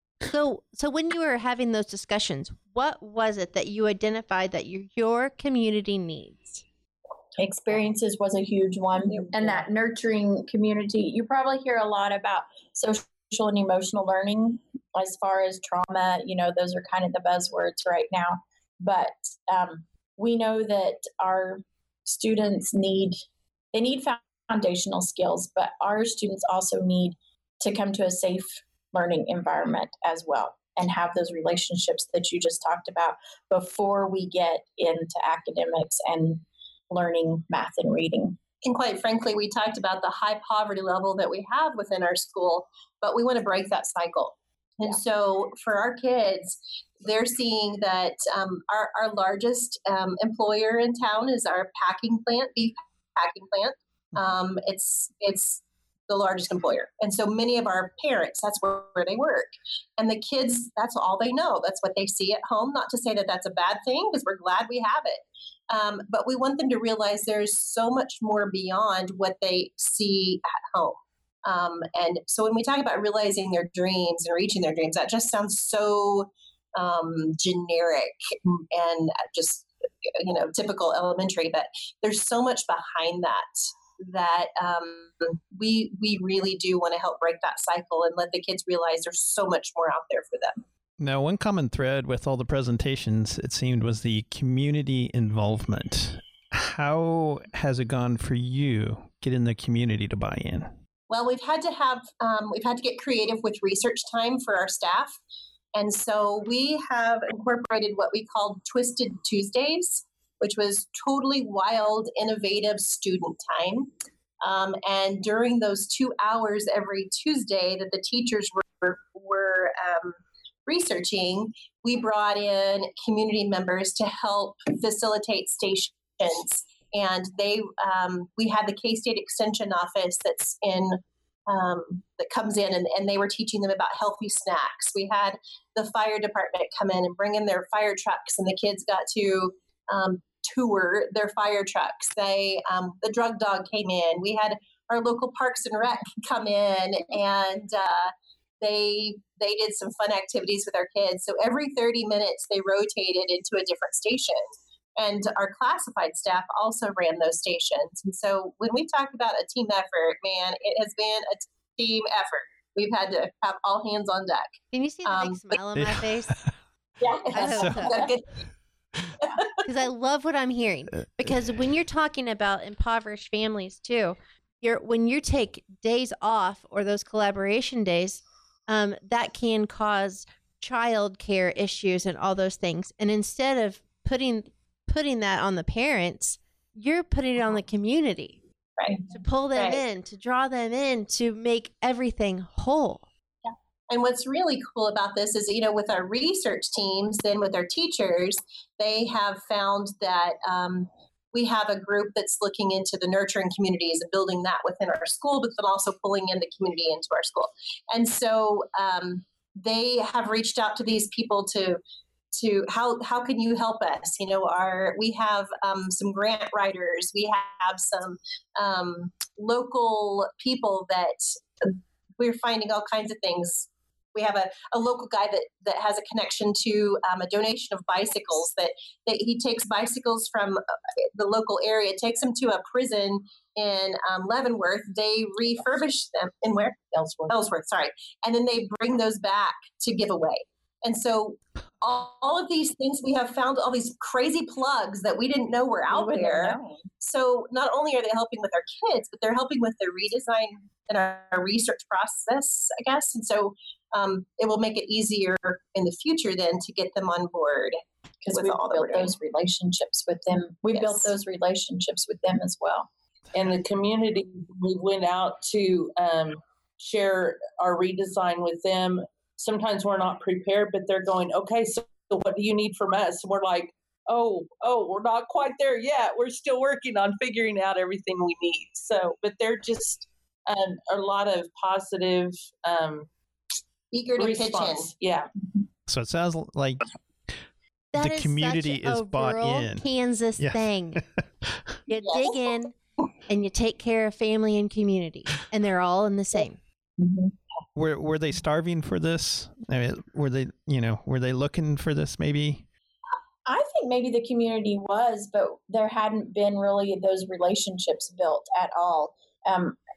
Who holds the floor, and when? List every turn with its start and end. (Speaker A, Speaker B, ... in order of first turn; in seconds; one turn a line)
Speaker A: 0.3-6.6
Speaker B: 7.4-23.2
Speaker B: 23.7-38.4
Speaker C: 38.6-83.5
Speaker C: 84.0-90.6
Speaker D: 91.0-100.7
Speaker C: 101.1-105.2
Speaker C: 105.8-113.9
Speaker C: 114.4-164.5
Speaker A: 164.7-166.3
Speaker C: 165.1-165.4
Speaker D: 165.8-166.5
Speaker B: 167.0-168.1
Speaker A: 167.3-168.0
Speaker D: 167.4-167.9
Speaker C: 167.5-168.2
Speaker A: 169.6-188.4
Speaker C: 188.8-189.8
Speaker A: 189.1-193.0
Speaker C: 193.9-211.8
Speaker C: 212.3-230.6
Speaker C: 231.2-257.8
Speaker B: 236.9-237.4
Speaker B: 245.9-246.8
Speaker B: 258.2-262.9
Speaker C: 258.3-259.1
Speaker C: 260.7-261.1
Speaker E: 263.3-283.1
Speaker C: 283.9-284.9
Speaker E: 284.2-285.3
Speaker D: 285.9-287.3
Speaker A: 287.9-291.0
Speaker D: 288.0-289.9
Speaker D: 290.4-291.8
Speaker A: 291.9-292.8
Speaker C: 292.0-292.4
Speaker A: 293.3-296.6
Speaker D: 297.8-302.6
Speaker B: 303.5-309.8